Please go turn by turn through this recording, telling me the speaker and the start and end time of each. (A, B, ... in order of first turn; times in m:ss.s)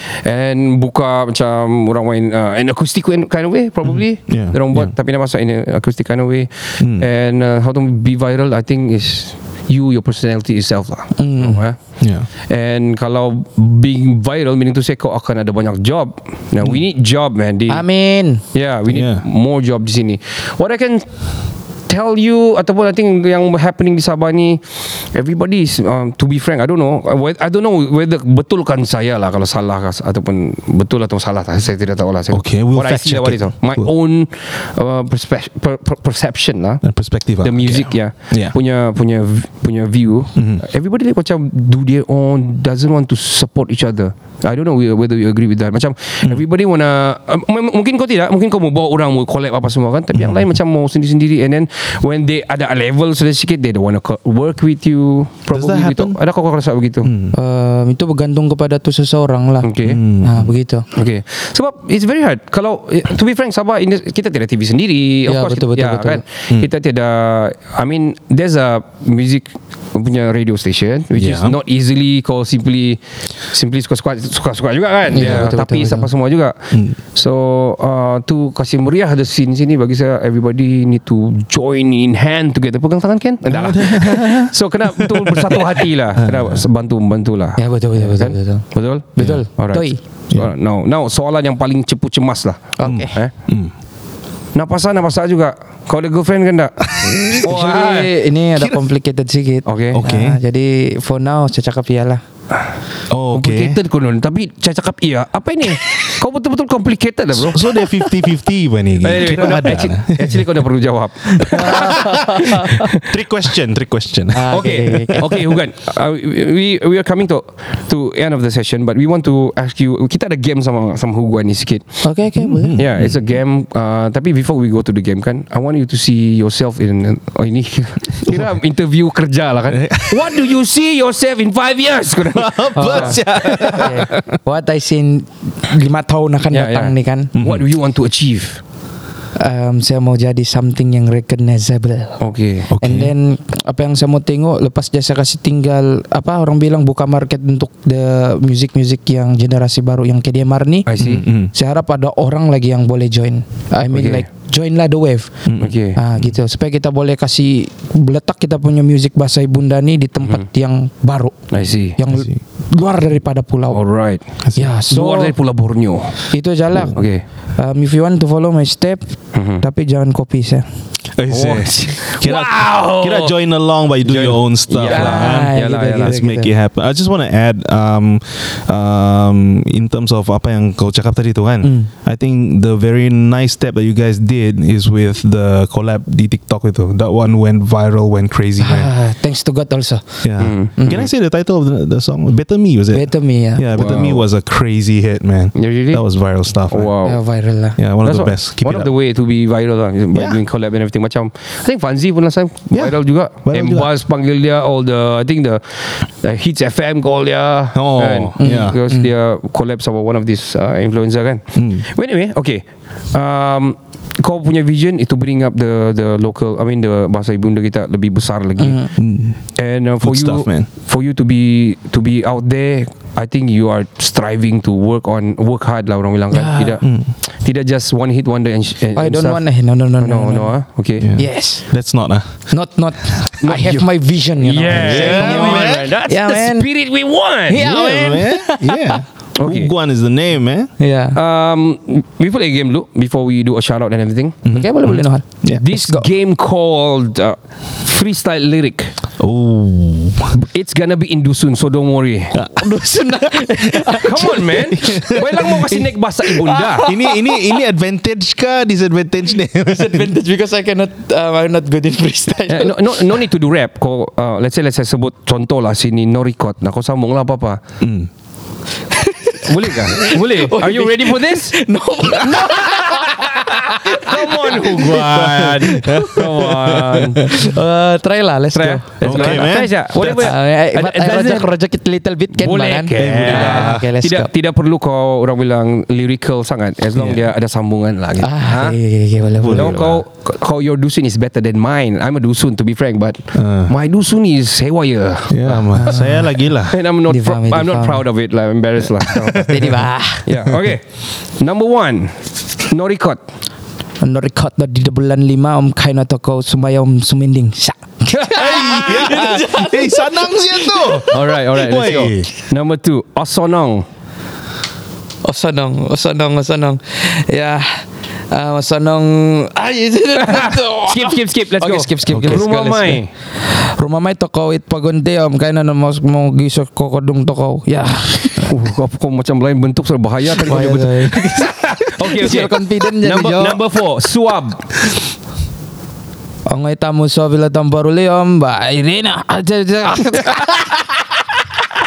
0:00.2-0:11.8 A
0:03.8-0:04.9 B
0:06.8-0:07.1 B
0:11.2-0:11.6 C
0:12.0-0:12.3 B
0:12.5-0:17.8 A
0:17.7-0:18.4 C
0:18.5-0:21.1 A
0:18.9-0:19.2 B
0:21.9-0:24.6 A
0:25.1-0:36.8 A
0:32.3-0:33.9 B
0:36.8-0:38.5 B
0:37.4-0:57.1 A
0:40.4-0:40.6 B
0:50.1-0:50.5 B
0:55.5-0:56.2 B
0:57.0-0:57.3 B
0:57.3-0:59.7 C
0:59.6-1:00.0 A
0:59.8-1:00.5 B
1:00.2-1:00.8 C
1:00.9-1:13.0 A
1:05.3-1:06.2 C
1:11.1-1:11.6 B
1:13.5-1:33.3 A
1:15.1-1:16.1 C
1:15.2-1:15.5 B
1:16.7-1:17.0 B
1:23.5-1:26.6 B
1:27.6-1:28.6 C
1:29.2-1:30.0 C
1:32.8-1:33.1 C
1:32.8-1:33.7 B
1:34.5-1:38.1 A
1:37.0-1:37.4 B
1:37.4-1:42.2 C
1:39.6-1:40.0 A
1:39.9-1:40.4 B
1:43.1-1:43.8 B
1:43.3-1:47.7 A
1:47.4-1:50.6 B
1:49.0-1:52.0 A
1:51.3-1:55.4 B
1:51.5-1:52.8 C
1:54.3-1:55.2 C
1:54.5-2:01.9 A
2:02.0-2:02.7 C
2:02.4-2:03.2 B
2:02.8-2:14.1 A
2:08.2-2:08.5 B
2:09.7-2:10.5 B
2:12.3-2:14.2 B
2:12.8-2:17.3 C
2:16.5-2:18.6 A
2:17.4-2:17.6 B
2:19.4-2:22.2 C
2:22.2-2:22.7 A
2:22.7-2:23.1 B
2:22.8-2:30.9 C
2:30.9-2:31.2 A
2:31.0-2:31.5 B
2:31.5-2:35.3 C
2:33.9-2:34.2 A
2:35.4-2:35.8 B
2:35.6-2:36.0 A
2:36.0-2:41.3 C
2:41.5-2:42.0 A
2:42.0-2:43.8 C
2:42.1-2:42.4 B
2:43.7-2:44.2 A
2:44.6-2:45.3 C
2:44.9-2:46.2 A
2:46.3-2:47.0 C
2:46.9-2:47.2 A
2:47.6-2:50.7 C
2:49.3-2:49.6 A
2:51.1-3:08.9 B
2:51.3-2:53.3 A
2:54.0-2:56.2 A
2:54.9-2:56.5 C
3:01.6-3:01.9 C
3:08.6-3:10.2 C
3:10.2-3:16.9 B
3:10.4-3:11.0 A
3:12.9-3:13.7 C
3:13.7-3:14.2 A
3:15.5-3:16.0 A
3:16.7-3:17.2 A
3:17.0-3:17.8 C
3:17.8-3:18.9 B
3:18.0-3:39.0 A
3:20.1-3:20.4 B
3:22.7-3:23.9 B
3:27.7-3:28.8 B
3:28.4-3:29.1 C
3:31.5-3:31.8 B
3:38.6-3:38.9 C
3:39.0-3:39.4 B
3:39.6-3:46.9 A
3:40.0-3:40.7 B
3:46.3-3:46.7 C
3:46.8-3:47.1 B
3:47.4-3:49.4 A
3:49.0-3:50.5 C
3:50.0-3:51.1 A
3:51.0-3:52.3 B
3:51.2-3:51.6 C
3:52.5-3:56.7 C
3:53.4-3:53.8 A
3:54.4-3:57.7 A
3:54.7-3:55.9 B
3:57.5-3:59.0 C
3:57.5-4:00.7 B
3:59.4-3:59.7 A
4:00.8-4:01.2 C
4:01.1-4:04.4 A
4:04.4-4:05.6 B
4:04.5-4:06.0 C
4:05.6-4:08.9 A
4:09.2-4:10.3 B
4:10.3-4:12.4 A
4:12.3-4:12.7 B
4:12.6-4:15.2 C
4:13.3-4:15.8 B
4:14.0-4:16.8 A
4:16.3-4:17.2 C
4:16.8-4:20.1 B
4:19.7-4:23.0 C
4:22.5-4:27.6 A
4:27.8-4:28.1 B
4:28.9-4:34.5 C
4:29.4-4:31.6 A
4:32.3-4:37.3 A
4:34.6-4:37.2 B
4:35.7-4:36.0 C
4:37.2-4:39.5 C
4:38.5-4:41.5 A
4:39.0-4:40.3 B
4:40.0-4:44.3 C
4:42.3-4:48.8 A
4:43.0-4:43.9 B
4:47.0-4:47.2 B
4:48.2-4:49.8 C
4:49.4-4:50.0 B
4:49.5-4:55.9 A
4:53.3-4:53.7 B
4:55.3-4:56.8 B
4:56.7-4:59.5 A
4:57.1-4:58.0 C
4:59.4-5:00.3 C
5:00.2-5:00.8 A
5:01.4-5:02.2 A
5:02.7-5:03.2 A
5:04.0-5:11.1 C
5:08.3-5:12.3 B
5:11.1-5:13.8 A
5:15.2-5:28.5 C
5:20.2-5:23.1 A
5:22.1-5:22.4 B
5:28.4-5:34.6 A
5:30.4-5:33.6 C
5:36.5-5:40.8 C